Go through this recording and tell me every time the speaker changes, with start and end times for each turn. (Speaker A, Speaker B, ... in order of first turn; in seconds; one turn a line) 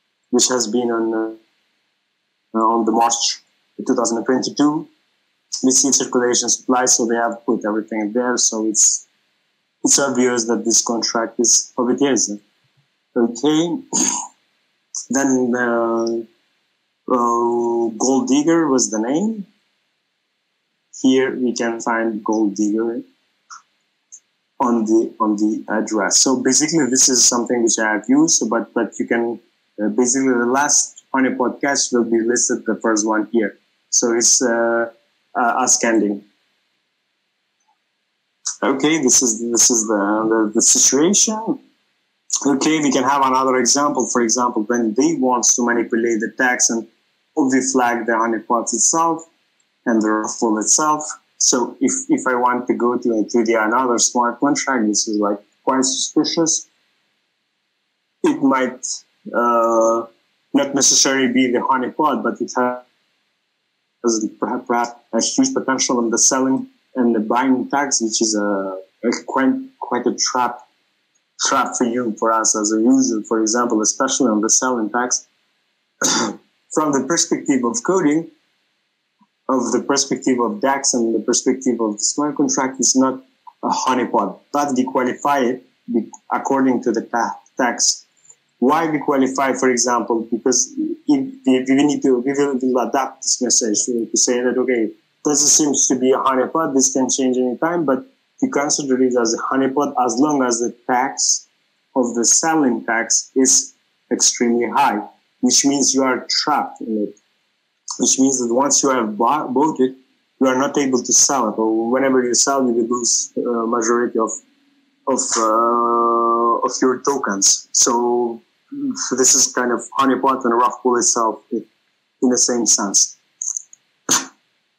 Speaker A: 0.3-1.4
Speaker A: 2.5-4.9
Speaker A: 5.6-9.1
Speaker A: 9.8-12.4
Speaker A: 13.2-14.2
Speaker A: 15.1-16.3
Speaker A: 17.1-19.5
Speaker A: 21.0-23.1
Speaker A: 24.6-36.2
Speaker A: 38.6-41.6
Speaker A: 42.5-49.3
Speaker A: 49.9-56.7
Speaker A: 58.2-62.8
Speaker A: 64.0-70.6
Speaker A: 71.4-75.2
Speaker A: 76.0-78.3
Speaker A: 79.5-88.0
Speaker A: 88.6-107.2
Speaker A: 108.0-114.4
Speaker A: 115.1-121.7
Speaker A: 122.2-123.2